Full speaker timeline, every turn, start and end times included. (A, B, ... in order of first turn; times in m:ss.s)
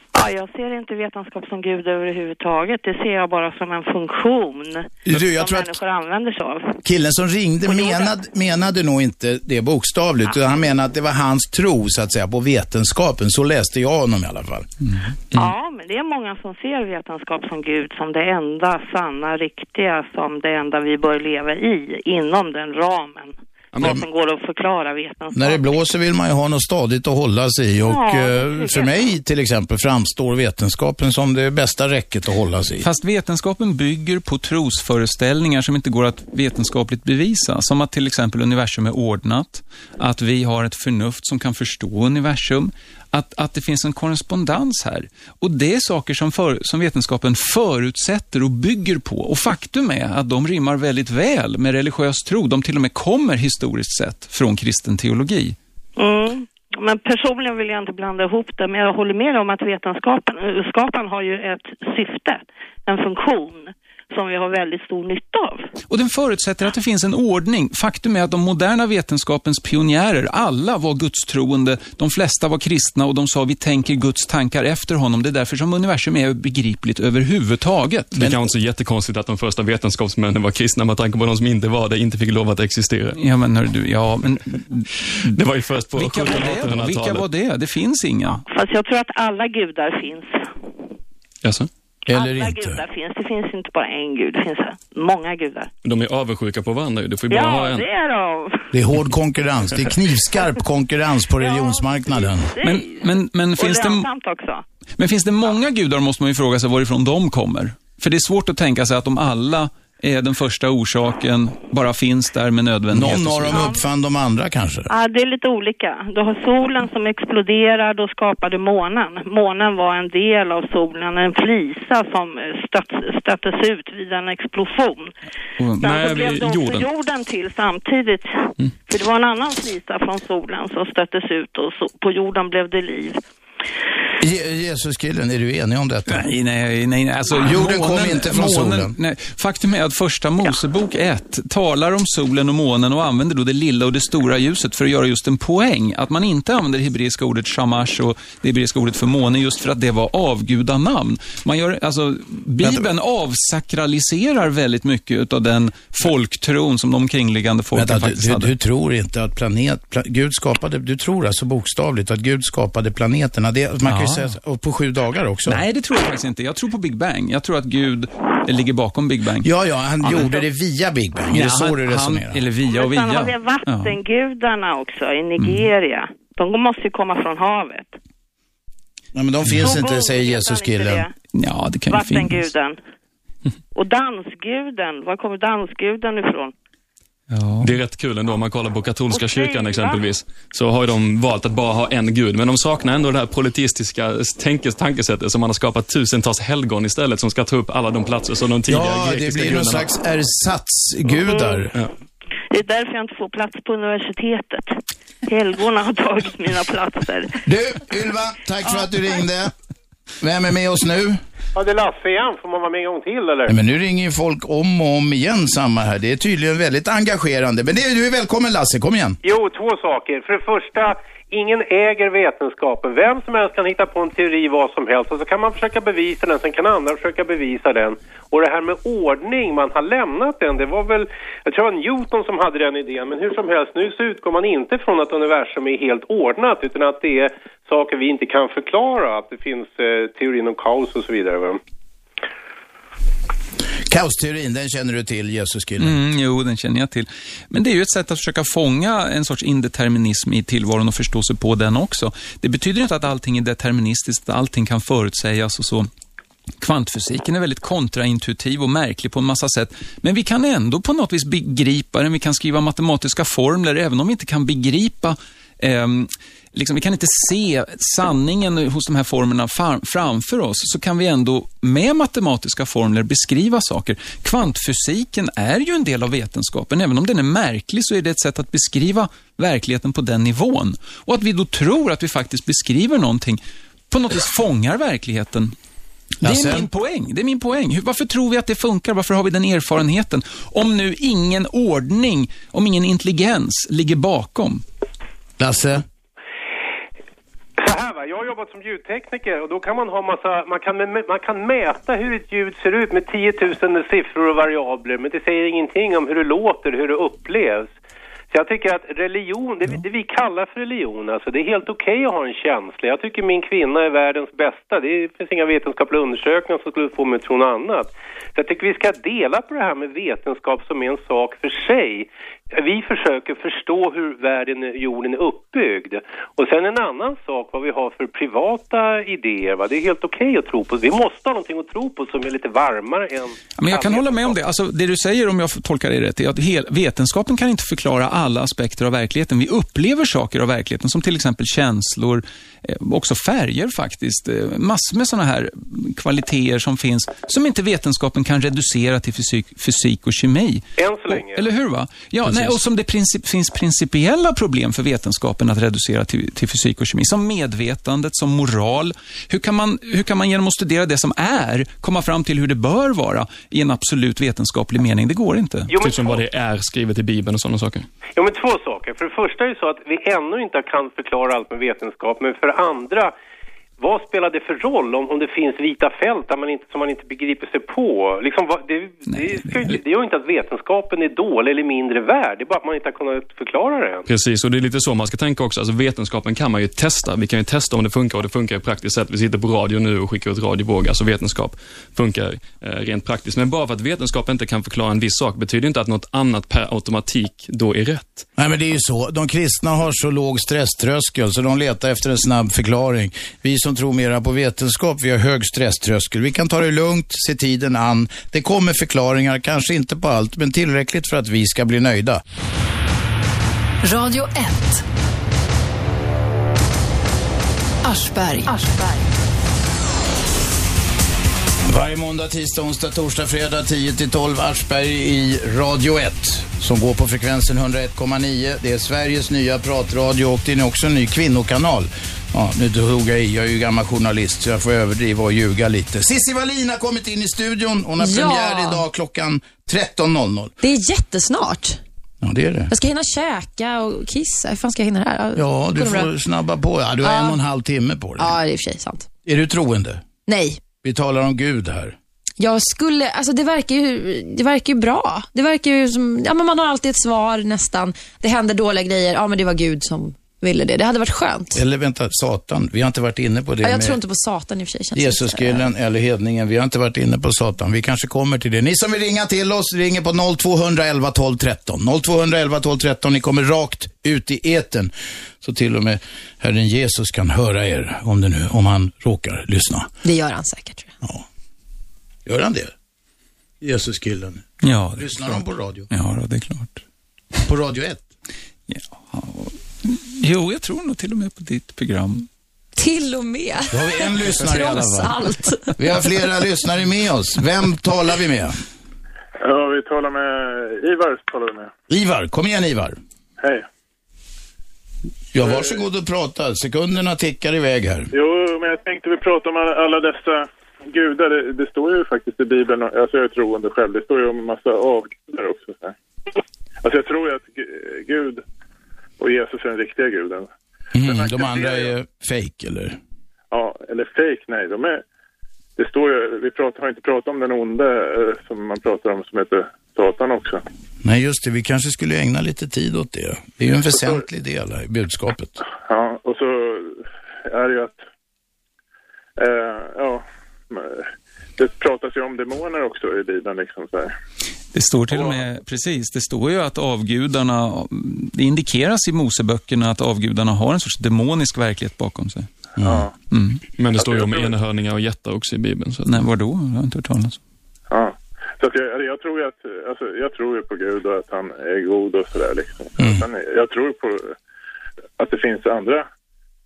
0:00.1-0:06.8 A
0:05.0-0:05.8 B
0:06.8-0:14.7 B
0:07.6-0:08.2 A
0:15.3-0:25.8 A
0:23.7-0:24.0 C
0:25.3-0:32.9 B
0:27.8-0:28.9 A
0:32.8-0:55.6 D
0:56.0-1:05.7 A
1:05.9-1:18.4 D
1:18.1-1:23.2 C
1:23.2-1:24.9 D
1:25.2-1:27.3 C
1:26.0-1:28.4 D
1:28.4-1:30.5 A
1:31.4-1:31.7 C
1:32.1-1:32.8 B
1:32.1-1:35.7 A
1:35.8-1:37.8 C
1:37.3-1:38.7 A
1:38.7-1:42.5 B
1:41.4-1:44.6 A
1:42.6-1:44.1 D
1:45.0-1:53.6 D
1:52.9-1:54.9 B
1:53.5-1:53.8 A
1:54.9-2:05.1 A
2:05.8-2:13.2 A
2:05.8-2:06.9 C
2:14.2-2:16.3 B
2:16.1-2:38.5 D
2:17.4-2:18.9 B
2:32.6-2:32.9 B
2:37.7-2:45.6 B
2:43.8-2:44.3 D
2:45.5-2:49.5 D
2:49.4-2:52.4 B
2:50.0-2:50.3 D
2:51.3-2:54.0 D
2:52.6-2:58.0 A
2:55.4-2:55.7 D
2:59.1-3:01.0 B
2:59.5-2:59.7 D
2:59.5-3:01.1 A
3:01.3-3:02.5 D
3:01.9-3:02.8 A
3:03.7-3:06.5 A
3:07.3-3:07.8 D
3:07.6-3:19.9 C
3:09.1-3:10.0 A
3:18.7-3:21.7 B
3:22.5-3:27.4 A
3:27.4-3:29.5 B
3:30.2-3:31.2 B
3:31.5-3:33.6 E
3:33.5-3:39.2 B
3:39.2-4:01.6 E
4:03.9-4:05.9 B
4:05.8-4:15.9 D
4:16.6-4:45.5 D
4:46.2-4:54.6 D
4:46.2-4:46.7 B
4:55.4-4:55.8 B
4:57.6-5:07.7 E
5:08.3-5:34.4 E
5:33.6-6:05.7 D
5:50.8-5:51.5 E
5:52.2-5:52.6 B
6:05.7-6:06.2 E
6:05.8-6:07.9 C
6:08.2-6:13.1 E
6:13.8-6:24.1 E
6:19.1-6:19.8 D
6:24.1-6:38.2 C
6:38.4-6:52.2 B
6:53.8-6:54.8 F
6:57.8-6:59.2 F
7:01.6-7:20.5 B
7:18.0-7:18.8 G
7:20.6-7:21.8 G
7:22.2-7:22.7 B
7:22.7-7:26.1 G
7:25.3-7:28.4 B
7:27.0-7:27.4 G
7:28.2-7:29.1 G
7:29.2-7:30.0 B
7:30.2-7:30.6 G
7:30.8-7:31.9 B
7:32.4-7:41.6 G
7:41.5-7:44.0 B
7:43.6-7:45.7 G
7:44.9-7:59.9 B
8:00.0-8:00.9 G
8:02.2-8:02.7 B
8:03.6-8:05.9 B
8:04.6-8:06.8 D
8:07.4-8:08.0 B
8:08.7-8:12.3 D
8:12.8-8:15.6 G
8:13.7-8:15.2 B
8:15.8-8:18.6 B
8:19.4-8:21.7 H
8:21.9-8:23.0 B
8:23.4-8:23.6 H
8:25.3-8:28.1 B
8:25.4-8:25.8 H
8:28.1-8:35.9 H
8:36.8-8:38.4 H
8:39.2-8:40.5 H
8:40.9-8:43.0 B
8:41.0-8:41.9 H
8:43.5-8:45.0 H
8:45.8-8:50.6 H
8:51.0-8:55.5 B
8:53.9-8:54.2 H
8:55.8-8:58.0 H
8:59.4-9:04.1 H
9:04.7-9:12.5 D
9:05.1-9:05.4 H
9:12.8-9:13.0 B
9:12.8-9:13.1 H
9:13.3-9:13.6 D
9:13.8-9:16.2 C
9:14.0-9:14.5 H
9:16.0-9:17.4 D
9:17.9-9:24.4 H
9:23.0-9:23.2 B
9:25.2-9:26.0 H